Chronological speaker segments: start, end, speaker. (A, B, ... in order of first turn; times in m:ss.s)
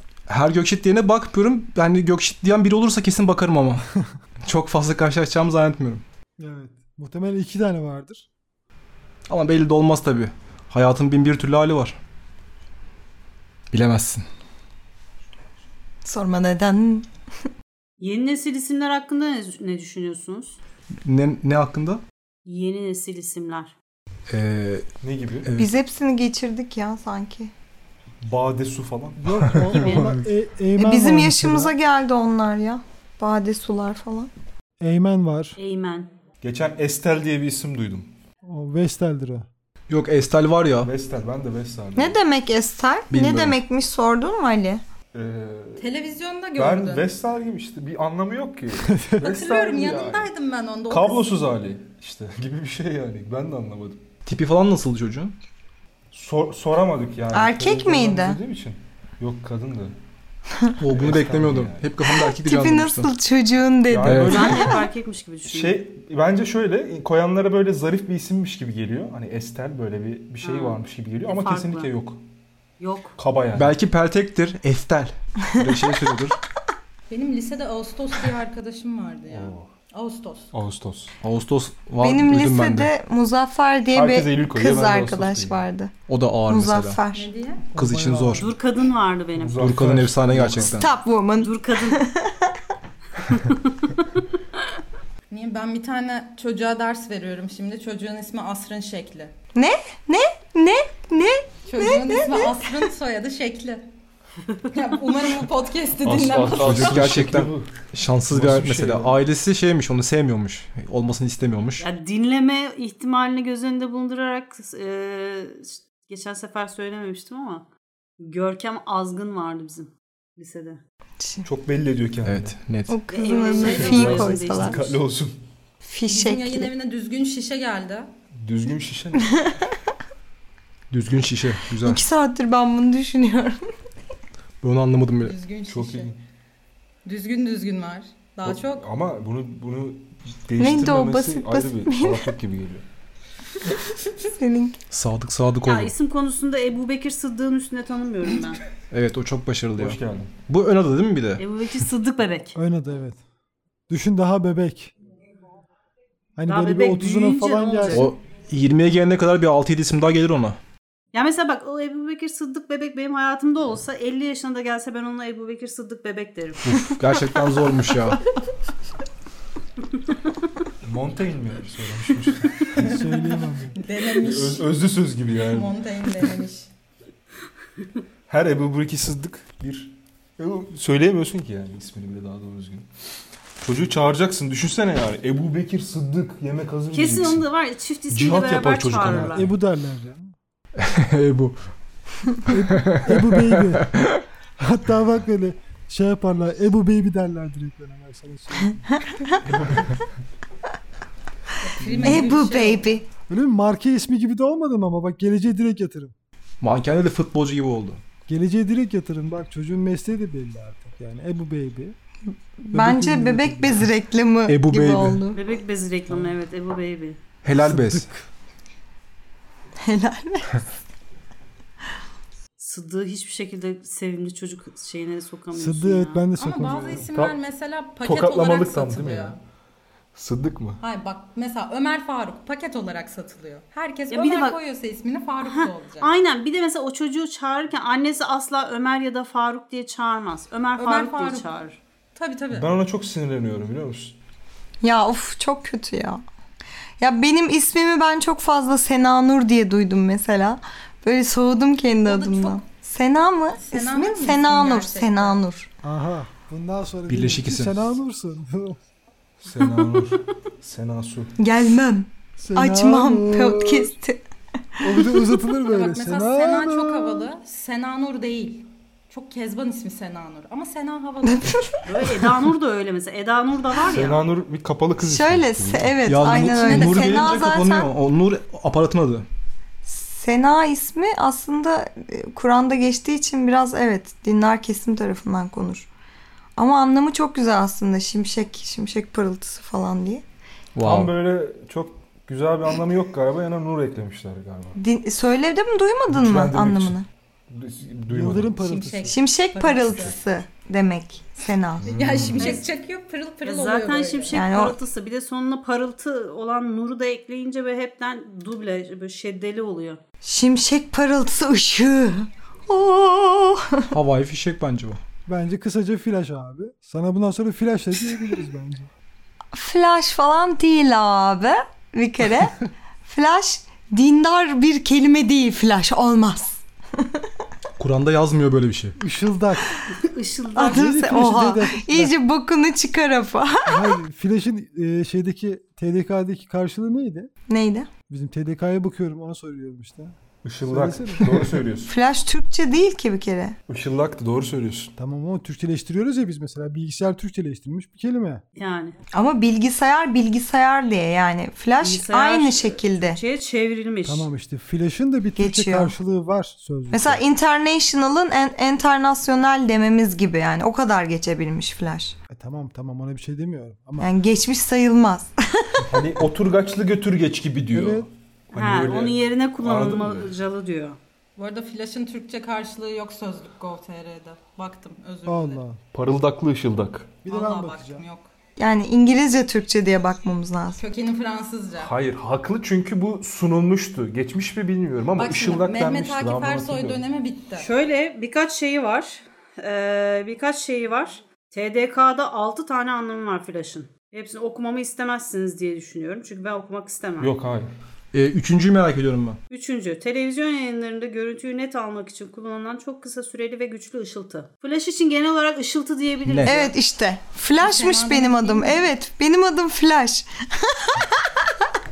0:00.3-0:03.8 A
0:04.4-0:06.0 A
0:06.4-0:08.3 B
0:09.3-0:12.0 A
0:13.7-0:14.2 A
0:16.0-0:17.5 C
0:18.0-0:20.6 D
0:21.0-0:22.0 A
0:22.4-0:23.7 D
0:24.3-0:24.8 A
0:25.0-0:25.5 E
0:25.4-0:25.7 A
0:25.6-0:27.5 C
0:28.2-0:29.6 E
0:29.2-0:31.7 B
0:29.7-0:30.3 A
0:30.8-0:34.3 C
0:34.8-0:35.6 B
0:35.6-0:36.1 D
0:36.4-0:38.1 E
0:38.4-0:39.5 B
0:39.9-0:40.9 A
0:40.8-0:42.2 E
0:41.9-0:44.8 C
0:43.1-0:43.6 A
0:45.1-0:45.9 E
0:45.8-0:47.1 F
0:46.6-0:50.3 E
0:48.9-0:49.2 B
0:49.2-0:51.3 F
0:50.9-0:54.1 E
0:54.2-0:55.4 A
0:56.1-1:00.0 E
0:57.3-0:58.4 C
1:00.8-1:03.1 A
1:00.9-1:01.9 E
1:02.1-1:04.7 C
1:03.9-1:04.8 E
1:04.0-1:04.6 A
1:04.3-1:05.8 D
1:05.5-1:12.2 E
1:10.4-1:11.9 D
1:12.8-1:13.1 D
1:13.2-1:13.8 E
1:13.5-1:16.4 A
1:15.6-1:15.9 C
1:17.1-1:20.5 F
1:19.3-1:19.7 E
1:20.5-1:21.2 E
1:21.2-1:22.9 A
1:22.0-1:25.9 C
1:23.9-1:25.6 E
1:26.1-1:27.0 A
1:26.5-1:27.3 C
1:27.1-1:27.6 F
1:27.7-1:28.5 B
1:27.8-1:28.5 A
1:28.4-1:29.7 D
1:29.4-1:30.8 E
1:29.5-1:30.9 A
1:30.5-1:32.6 C
1:31.4-1:32.0 D
1:33.3-1:33.6 D
1:35.3-1:39.3 F
1:39.5-1:42.9 C
1:41.7-1:43.8 F
1:44.7-1:47.0 F
1:46.0-1:49.2 E
1:46.5-1:51.8 A
1:51.8-1:57.6 D
1:58.2-2:00.8 D
2:01.2-2:01.4 C
2:01.4-2:02.6 E
2:02.2-2:03.0 A
2:02.9-2:04.8 C
2:03.1-2:05.0 D
2:03.5-2:05.4 E
2:05.8-2:06.7 C
2:06.1-2:08.1 F
2:08.3-2:09.5 E
2:10.9-2:12.0 A
2:11.8-2:13.6 C
2:14.6-2:15.3 A
2:15.2-2:16.2 F
2:15.7-2:16.1 E
2:17.0-2:18.9 F
2:18.4-2:22.8 E
2:20.6-2:22.3 C
2:24.2-2:24.8 C
2:24.9-2:25.9 A
2:25.6-2:28.6 D
2:28.9-2:31.4 A
2:29.8-2:30.4 E
2:31.4-2:32.6 D
2:32.5-2:33.2 B
2:33.9-2:34.9 B
2:36.4-2:38.1 B
2:36.5-2:38.1 D
2:37.9-2:40.6 A
2:41.1-2:46.7 D
2:46.6-2:48.2 A
2:50.8-2:53.0 E
2:52.7-2:53.8 B
2:52.7-2:54.7 F
2:54.0-2:55.7 E
2:55.4-2:56.7 F
2:58.3-3:02.9 E
3:03.6-3:07.5 E
3:06.9-3:09.5 D
3:08.1-3:09.5 E
3:09.3-3:10.3 B
3:10.8-3:11.6 A
3:12.2-3:14.2 A
3:12.5-3:13.9 B
3:14.6-3:19.3 B
3:19.5-3:20.0 E
3:21.6-3:23.0 F
3:21.9-3:22.2 B
3:22.0-3:23.0 C
3:23.3-3:26.1 B
3:26.6-3:28.0 A
3:28.3-3:32.0 B
3:32.3-3:35.4 C
3:32.7-3:33.8 B
3:34.5-3:35.2 A
3:35.3-3:37.2 D
3:37.4-3:38.1 A
3:37.6-3:38.2 B
3:39.8-3:40.6 C
3:42.6-3:46.2 D
3:45.5-3:47.0 B
3:46.4-3:49.4 F
3:47.1-3:47.4 E
3:48.0-3:49.4 E
3:50.1-3:50.8 E
3:50.8-3:56.1 F
3:54.1-3:54.6 D
3:55.4-4:01.8 D
4:00.8-4:01.5 F
4:02.1-4:02.8 F
4:02.5-4:04.2 E
4:04.8-4:06.2 C
4:07.0-4:15.7 C
4:12.0-4:12.6 F
4:13.5-4:15.4 F
4:15.8-4:18.8 B
4:17.1-4:17.9 A
4:19.4-4:21.3 E
4:21.4-4:24.2 C
4:22.4-4:23.9 B
4:24.8-4:25.0 C
4:24.8-4:27.3 B
4:25.6-4:31.7 F
4:31.2-4:31.7 C
4:31.8-4:34.2 D
4:33.9-4:36.0 E
4:35.0-4:37.9 C
4:36.0-4:39.2 A
4:36.5-4:37.4 F
4:39.8-4:45.9 C
4:46.6-4:50.2 C
4:50.8-4:51.1 A
4:50.8-4:54.8 E
4:54.8-4:57.0 C
4:56.1-4:58.5 E
4:58.1-4:59.2 B
4:58.6-5:00.2 F
4:59.1-5:02.0 C
5:01.8-5:02.6 E
5:01.8-5:04.4 F
5:03.4-5:10.0 D
5:04.3-5:04.8 C
5:10.2-5:14.0 C
5:13.9-5:15.0 A
5:15.3-5:18.9 B
5:19.5-5:27.3 C
5:27.8-5:29.0 A
5:29.0-5:29.7 B
5:29.9-5:30.9 D
5:30.6-5:34.0 C
5:30.7-5:32.1 B
5:33.6-5:37.3 B
5:37.5-5:37.9 C
5:38.1-5:41.6 B
5:40.4-5:41.9 E
5:41.8-5:43.6 C
5:43.7-5:44.9 E
5:45.0-5:48.4 B
5:48.6-5:48.9 D
5:49.1-5:53.2 C
5:51.8-5:54.3 D
5:54.1-5:57.2 B
5:55.4-5:55.9 C
5:56.9-6:02.2 C
6:02.3-6:04.1 B
6:04.0-6:06.0 C
6:05.8-6:10.3 E
6:07.7-6:08.1 B
6:08.5-6:11.0 D
6:11.4-6:15.6 F
6:15.2-6:15.8 B
6:15.9-6:17.2 E
6:17.2-6:18.0 B
6:17.2-6:18.3 F
6:18.6-6:20.8 C
6:20.8-6:21.9 F
6:21.8-6:27.0 E
6:25.2-6:27.7 F
6:27.5-6:37.3 D
6:37.2-6:37.7 E
6:38.1-6:39.4 A
6:39.5-6:46.7 D
6:46.2-6:46.5 A
6:46.4-6:51.7 C
6:47.6-6:48.9 F